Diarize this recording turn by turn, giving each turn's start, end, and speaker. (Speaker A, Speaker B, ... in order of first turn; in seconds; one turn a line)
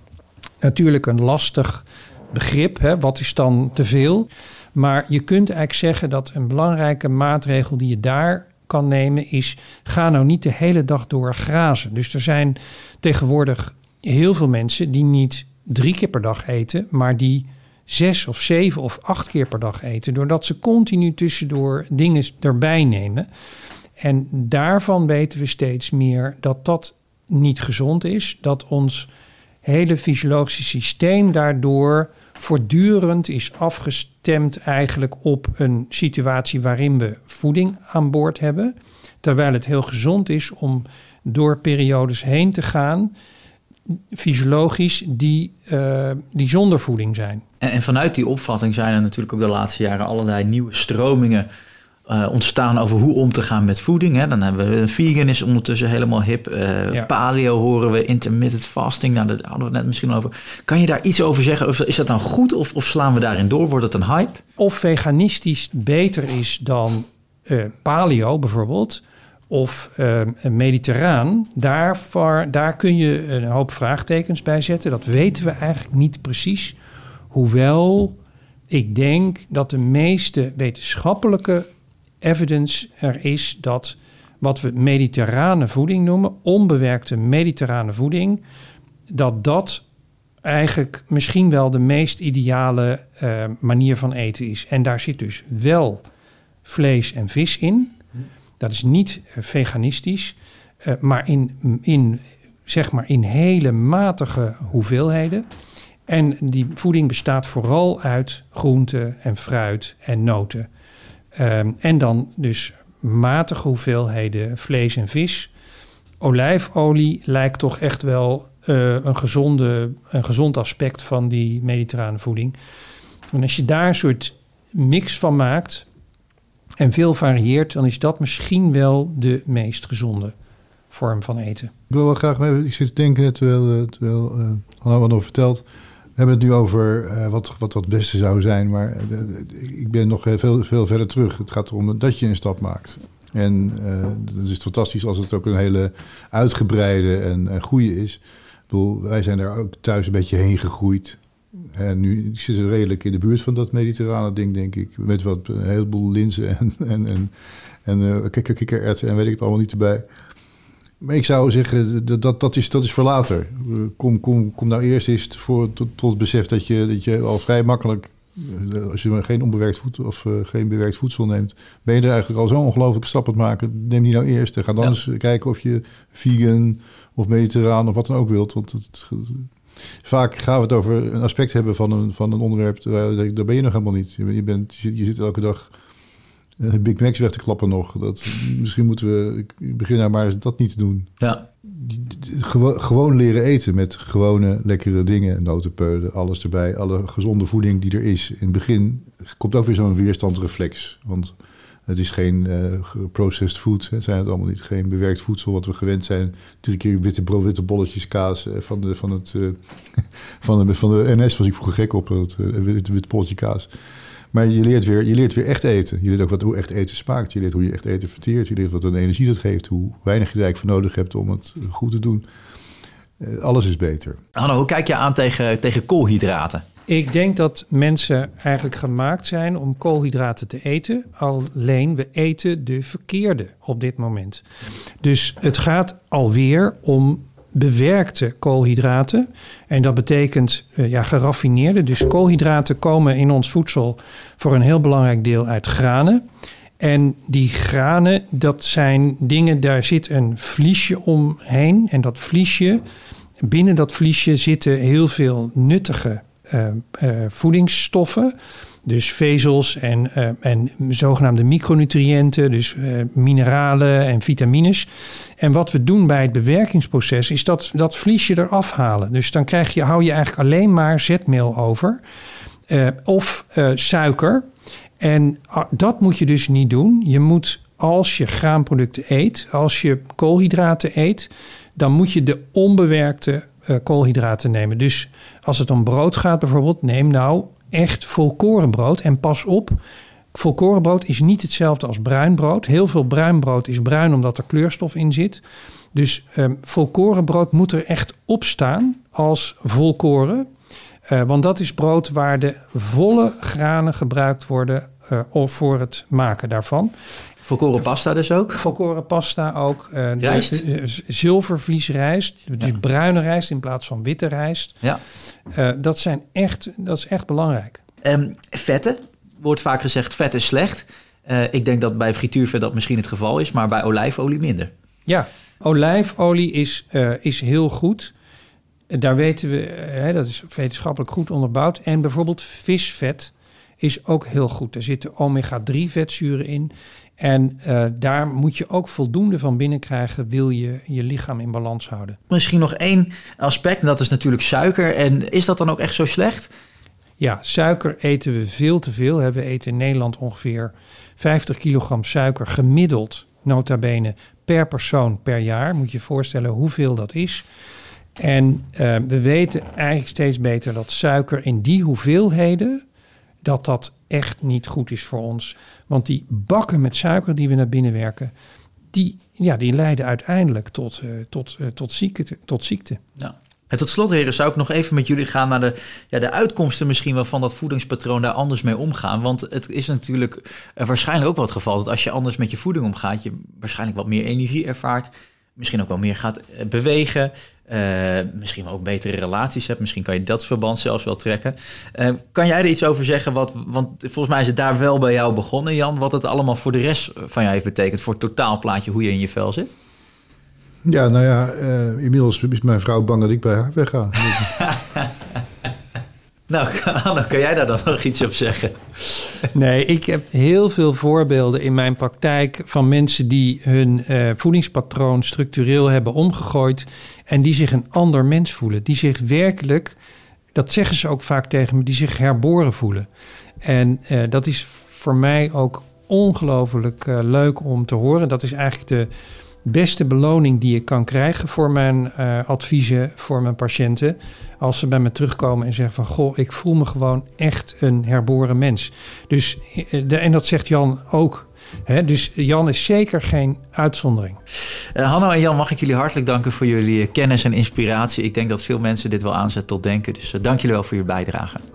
Speaker A: 0.6-23.3
Speaker A: 24.0-29.1
Speaker A: 29.6-43.1
Speaker A: 43.9-47.4
Speaker B: 47.6-51.5
Speaker B: 52.1-64.4
Speaker A: 64.6-76.8
Speaker A: 77.3-78.2
Speaker A: 78.7-81.7
Speaker A: 82.2-88.4
Speaker A: 89.1-89.8
Speaker A: 90.4-96.1
Speaker A: 96.7-98.0
Speaker A: 98.6-105.5
Speaker A: 106.1-110.7
Speaker A: 111.3-115.5
Speaker A: 116.2-122.6
Speaker A: 123.3-125.9
Speaker A: 126.8-130.3
Speaker A: 130.9-131.7
Speaker C: 131.9-135.7
Speaker C: 136.2-157.3
Speaker C: 157.8-160.1
Speaker C: 161.0-179.5
Speaker C: 180.0-185.7
Speaker C: 186.6-191.1
Speaker C: 191.7-201.3
Speaker C: 201.9-213.7
Speaker C: 214.3-222.2
Speaker C: 223.2-224.2
Speaker B: 224.4-226.6
Speaker A: 226.9-234.4
Speaker A: 235.0-246.2
Speaker A: 246.8-252.8
Speaker A: 253.4-258.3
Speaker A: 258.9-272.0
Speaker A: 272.7-274.4
Speaker A: 275.0-289.8
Speaker A: 290.3-295.4
Speaker A: 295.9-300.5
Speaker A: 301.1-306.9
Speaker B: 307.4-308.6
Speaker A: 308.6-314.8
Speaker B: 310.2-310.6
Speaker A: 315.5-317.8
Speaker B: 318.1-324.7
Speaker A: 325.1-328.1
Speaker A: 328.9-342.2
Speaker B: 342.3-346.5
Speaker A: 347.2-357.4
Speaker A: 358.2-362.8
Speaker A: 363.4-368.3
Speaker A: 368.9-373.0
Speaker B: 373.2-399.8
Speaker C: 400.9-404.5
Speaker B: 404.3-405.1
Speaker B: 406.5-409.0
Speaker A: 409.5-420.0
Speaker A: 420.5-423.1
Speaker A: 423.6-429.1
Speaker A: 429.6-444.4
Speaker B: 445.0-451.6